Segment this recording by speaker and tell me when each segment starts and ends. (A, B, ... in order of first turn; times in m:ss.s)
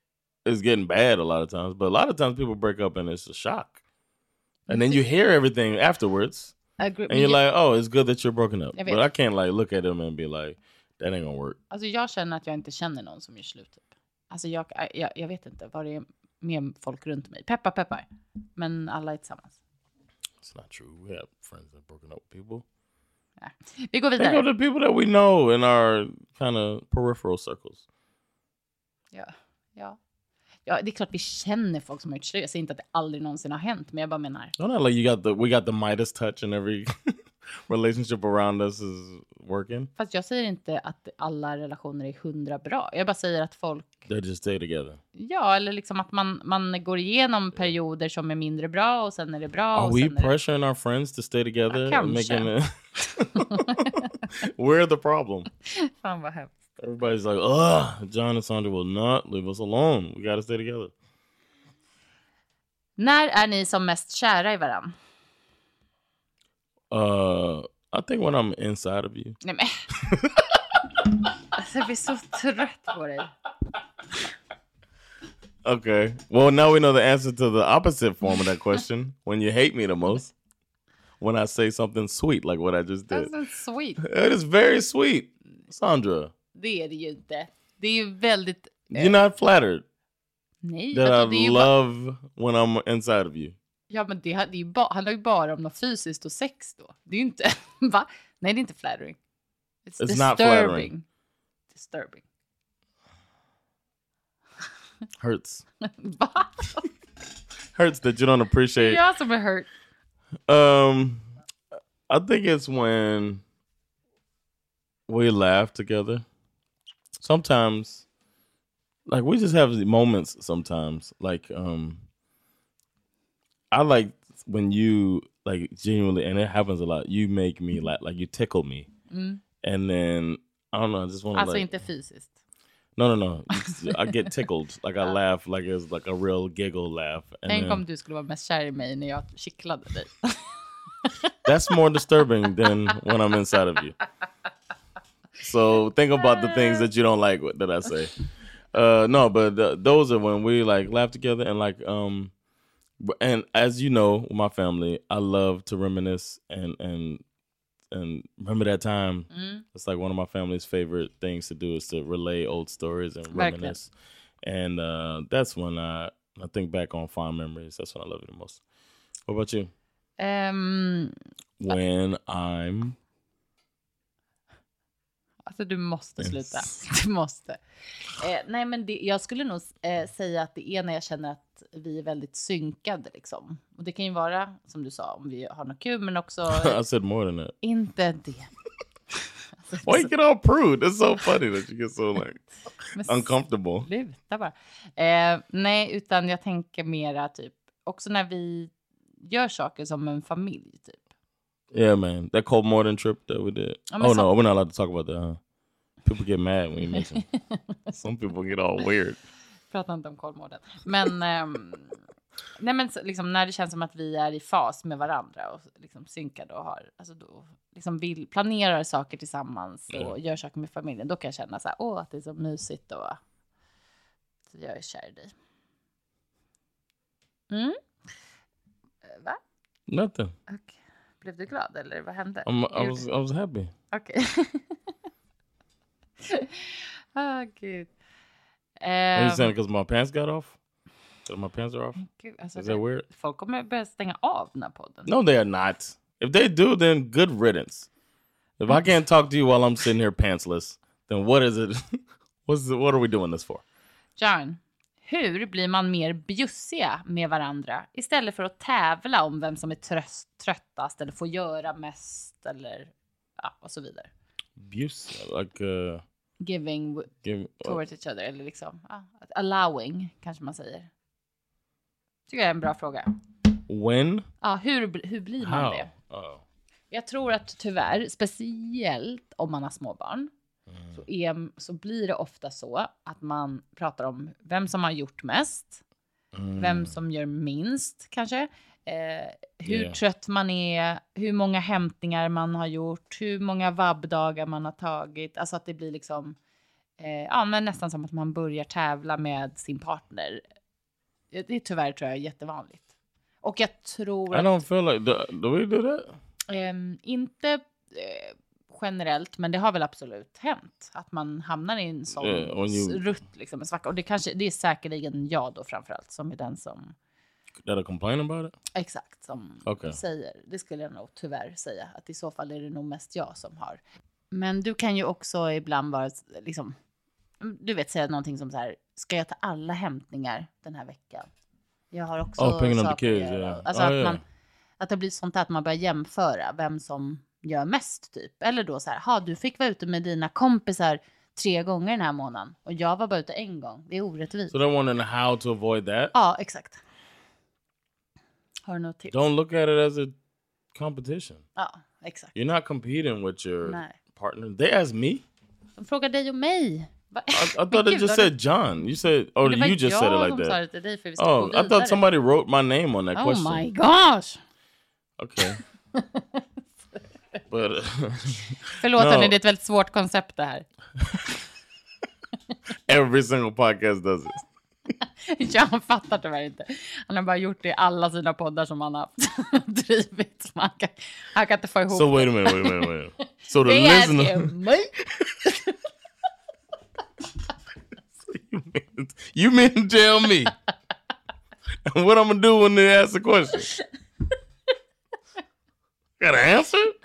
0:00.4-0:03.8 A
0:04.7-0:05.0 B
0:04.7-0:06.6 A
0:06.8-0:07.4 B
0:07.1-0:11.6 A
0:08.8-0:09.0 B
0:11.7-0:19.6 B
0:20.4-0:22.6 A
0:23.4-0:24.4 B
0:24.2-0:27.8 A
0:29.1-0:30.0 B
0:30.7-0:34.5 B
0:34.6-0:39.9 A
0:40.0-0:44.1 B
0:44.1-0:45.0 A
0:45.2-0:50.3 B
0:49.7-0:53.9 A
0:51.7-0:52.5 B
0:53.4-0:54.1 B
0:54.4-0:55.5 A
0:55.7-0:56.6 B
0:56.8-1:00.9 A
1:03.0-1:05.0 B
1:06.9-1:09.4 A
1:09.4-1:09.8 B
1:10.0-1:10.4 A
1:11.6-1:13.3 B
1:15.6-1:20.3 A
1:21.2-1:23.3 A
1:23.1-1:24.0 B
1:24.0-1:26.3 A
1:26.6-1:29.2 B
1:28.9-1:29.8 A
1:30.6-1:31.7 B
1:30.9-1:33.6 A
1:33.9-1:39.2 B
1:39.9-1:41.0 B
1:40.0-1:40.9 A
1:41.7-1:42.2 B
1:45.2-1:45.6 A
1:46.0-1:46.9 B
1:47.8-1:49.0 A
1:48.8-1:49.7 B
1:50.5-1:51.2 A
1:52.1-1:53.4 A
1:55.1-1:56.2 A
1:57.2-1:58.0 A
1:59.1-2:02.0 A
2:03.7-2:08.9 A
2:09.1-2:09.4 B
2:09.6-2:11.7 A
2:11.4-2:12.3 B
2:13.0-2:17.8 A
2:13.6-2:14.3 B
2:17.5-2:20.5 B
2:21.0-2:21.3 B
2:21.4-2:24.0 A
2:25.4-2:28.2 A
2:26.3-2:26.8 B
2:28.7-2:32.3 A
2:33.0-2:37.2 A
2:37.9-2:43.9 A
2:39.3-2:39.6 B
2:43.3-2:43.7 B
2:44.4-2:48.6 A
2:49.3-2:49.7 A
2:50.2-2:51.2 B
2:51.6-2:53.0 A
2:55.5-2:57.6 B
2:56.2-2:56.7 A
2:58.1-3:06.8 B
3:06.5-3:07.5 A
3:07.6-3:08.5 B
3:09.7-3:10.1 B
3:09.8-3:12.4 A
3:12.9-3:18.7 B
3:13.0-3:13.9 A
3:19.2-3:21.0 B
3:21.7-3:25.4 A
3:23.9-3:24.3 B
3:26.0-3:27.3 A
3:27.9-3:29.2 A
3:29.7-3:32.0 B
3:32.6-3:43.2 B
3:44.5-3:45.3 B
3:47.5-3:47.8 B
3:49.0-3:49.4 B
3:49.9-3:50.3 A
3:50.5-3:53.0 B
3:52.5-3:53.7 A
3:53.9-3:54.8 B
3:56.2-3:57.9 B
3:58.8-3:59.5 B
3:59.2-4:00.6 A
4:01.3-4:02.0 A
4:02.0-4:05.1 B
4:02.6-4:03.1 A
4:05.1-4:07.9 A
4:08.6-4:13.6 A
4:14.2-4:24.1 B
4:24.6-4:26.0 A
4:26.4-4:30.9 B
4:27.2-4:27.8 A
4:32.3-4:33.1 B
4:33.7-4:34.3 A
4:34.4-4:35.9 B
4:35.4-4:36.4 A
4:36.9-4:40.3 B
4:40.7-4:41.0 A
4:40.9-4:45.8 B
4:46.3-4:47.0 A
4:46.6-4:56.4 B
4:49.7-4:50.0 A
4:57.0-5:00.4 B
5:01.3-5:02.9 B
5:03.4-5:04.6 B
5:04.3-5:06.2 A
5:06.5-5:17.0 B
5:12.2-5:13.0 A
5:17.6-5:18.6 A
5:18.8-5:23.8 B
5:19.7-5:20.0 A
5:24.3-5:26.8 B
5:27.4-5:31.3 B
5:31.9-5:34.2 B
5:32.4-5:34.2 A
5:34.8-5:44.6 B
5:44.5-5:46.1 A
5:46.1-5:46.8 B
5:48.7-5:49.2 B
5:49.1-5:50.1 A
5:50.8-5:51.4 A
5:51.6-5:52.3 B
5:52.4-5:55.2 A
5:53.6-5:54.0 B
5:55.8-5:58.3 B
5:57.3-6:00.6 A
5:59.4-6:02.0 B
6:01.2-6:03.6 A
6:03.2-6:04.4 B
6:05.2-6:05.6 A
6:05.9-6:07.0 B
6:07.5-6:09.4 A
6:08.8-6:10.7 B
6:12.9-6:14.4 A
6:15.3-6:22.9 B
6:21.9-6:24.5 A
6:23.6-6:24.9 B
6:25.4-6:25.7 B
6:28.2-6:30.6 A
6:31.9-6:33.7 A
6:36.2-6:37.0 A